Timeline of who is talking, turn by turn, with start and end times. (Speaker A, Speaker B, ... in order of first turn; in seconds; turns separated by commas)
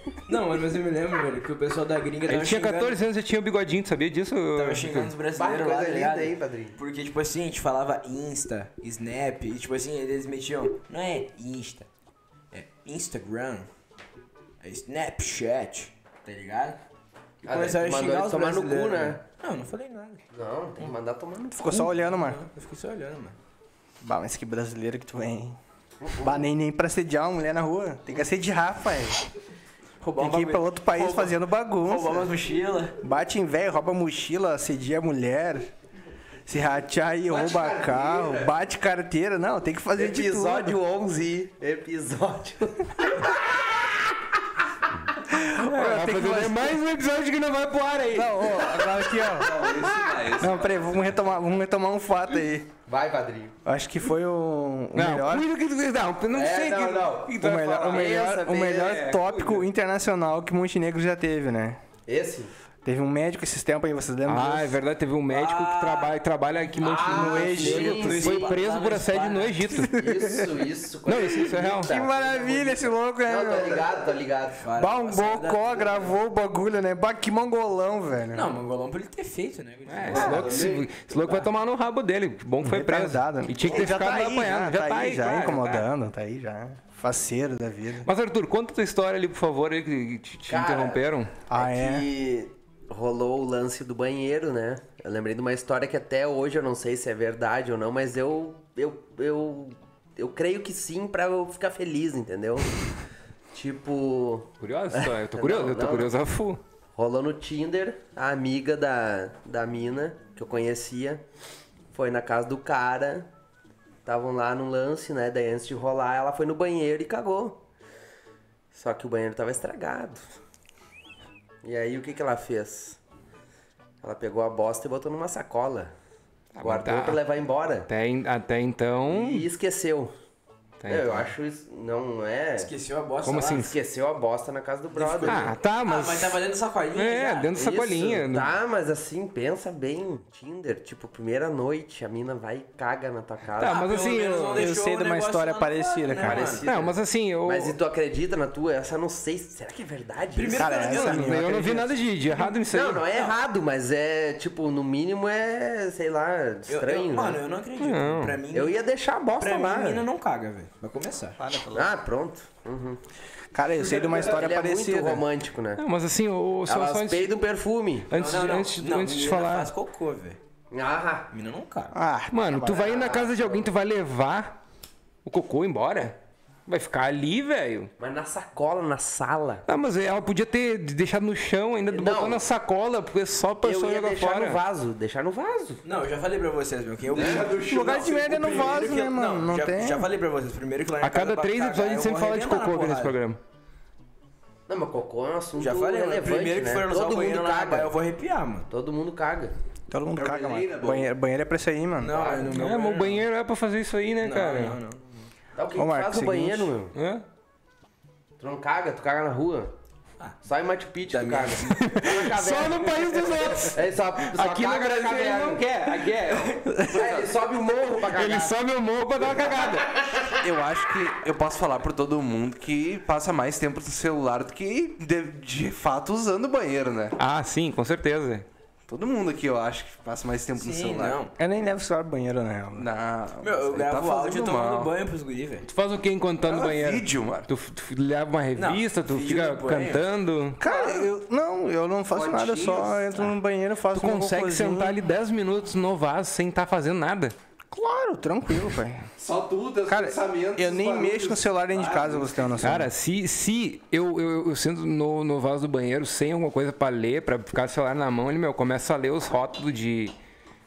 Speaker A: 0.3-3.0, Speaker B: 2.3-5.1, Speaker A: 4.5-11.9, Speaker C: 5.3-6.8, Speaker A: 12.5-13.7, Speaker A: 14.6-16.8, Speaker C: 17.4-19.2, Speaker A: 17.4-20.2, Speaker C: 20.3-21.8, Speaker D: 21.5-22.4, Speaker A: 21.7-23.4, Speaker D: 24.0-25.6, Speaker C: 26.0-26.4, Speaker D: 26.2-29.2, Speaker A: 30.0-32.9, Speaker D: 30.1-32.3, Speaker D: 33.0-35.7, Speaker D: 36.5-40.8, Speaker E: 37.3-38.4, Speaker C: 40.0-43.2, Speaker D: 45.3-46.8, Speaker B: 45.6-48.6, Speaker D: 48.1-52.7, Speaker E: 48.8-51.2, Speaker C: 52.9-53.5, Speaker D: 53.6-55.5, Speaker B: 54.9-58.2, Speaker C: 56.3-59.1, Speaker D: 57.3-61.8, Speaker B: 58.9-59.6, Speaker C: 62.1-62.5, Speaker D: 62.8-64.8, Speaker B: 64.2-70.2, Speaker A: 65.3-66.1, Speaker C: 66.8-68.5, Speaker A: 66.8-69.7, Speaker D: 67.0-68.0, Speaker D: 69.9-70.4, Speaker C: 69.9-74.6, Speaker B: 71.0-71.9, Speaker D: 71.8-73.8, Speaker A: 74.6-76.1, Speaker D: 74.8-78.5, Speaker A: 78.3-80.6, Speaker B: 79.9-85.8, Speaker E: 80.1-80.8, Speaker C: 80.2-80.8, Speaker D: 82.6-88.1, Speaker B: 88.0-91.3, Speaker C: 90.5-102.7, Speaker D: 91.5-92.0, Speaker C: 103.5-106.1, Speaker B: 104.6-106.6, Speaker C: 107.0-111.2, Speaker C: 111.9-113.3, Speaker C: 114.0-117.6, Speaker C: 118.7-120.2, Speaker C: 121.6-123.0, Speaker C: 124.0-125.9, Speaker B: 126.5-127.2, Speaker C: 126.6-127.9, Speaker B: 127.9-129.5, Speaker C: 129.1-130.1, Speaker B: 130.8-131.3, Speaker C: 130.9-132.7, Speaker A: 132.6-133.7, Speaker B: 133.2-133.7, Speaker C: 133.4-135.5, Speaker A: 134.9-137.5, Speaker B: 135.2-136.4, Speaker B: 136.9-138.5, Speaker C: 137.5-143.9, Speaker B: 143.6-144.7, Speaker A: 143.6-146.7, Speaker D: 144.5-146.5, Speaker C: 146.2-150.9, Speaker B: 146.6-147.7, Speaker A: 150.3-151.8, Speaker D: 150.5-151.9, Speaker B: 150.8-153.0, Speaker C: 152.7-157.4, Speaker A: 153.1-153.3, Speaker A: 156.7-158.8, Speaker B: 157.8-158.4, Speaker C: 158.5-160.0, Speaker A: 159.4-161.4, Speaker D: 161.4-161.9, Speaker C: 161.7-163.0, Speaker D: 163.5-165.2, Speaker C: 164.1-165.8, Speaker B: 165.8-167.3, Speaker C: 166.7-168.1, Speaker B: 168.1-169.7, Speaker A: 168.1-170.4, Speaker C: 170.7-171.3, Speaker A: 171.3-171.9, Speaker D: 171.9-172.9, Speaker B: 172.3-174.6, Speaker C: 172.6-173.7, Speaker B: 175.2-176.1, Speaker B: 176.7-177.9, Speaker C: 178.0-179.7, Speaker B: 179.7-184.6, Speaker C: 181.9-182.4, Speaker C: 183.6-185.8, Speaker A: 185.8-193.2, Speaker E: 187.1-189.0, Speaker D: 187.6-190.1, Speaker B: 191.0-193.4, Speaker C: 194.7-197.9, Speaker A: 195.6-198.7, Speaker C: 198.7-199.5, Speaker D: 199.9-202.2, Speaker E: 200.2-201.1, Speaker A: 202.0-203.2, Speaker C: 202.1-202.5, Speaker B: 202.5-204.8, Speaker A: 204.2-205.3, Speaker C: 205.6-206.9, Speaker D: 205.8-206.7, Speaker B: 206.9-207.2, Speaker C: 208.4-209.7, Speaker C: 210.4-215.7, Speaker A: 211.1-211.9, Speaker B: 211.7-217.1, Speaker C: 216.9-218.5, Speaker B: 218.1-220.0, Speaker C: 219.4-219.8, Speaker E: 220.4-227.2, Speaker B: 227.2-228.4, Speaker E: 228.9-231.2, Speaker A: 230.6-231.3, Speaker D: 231.4-232.9, Speaker E: 232.7-234.9, Speaker A: 233.4-235.7, Speaker B: 235.7-240.6, Speaker E: 236.4-237.5, Speaker A: 238.5-240.0, Speaker D: 240.6-245.0, Speaker E: 240.7-241.0, Speaker E: 242.1-243.2, Speaker B: 243.9-247.3, Speaker D: 247.7-249.1, Speaker E: 249.2-252.8, Speaker D: 249.9-252.9, Speaker B: 252.6-260.1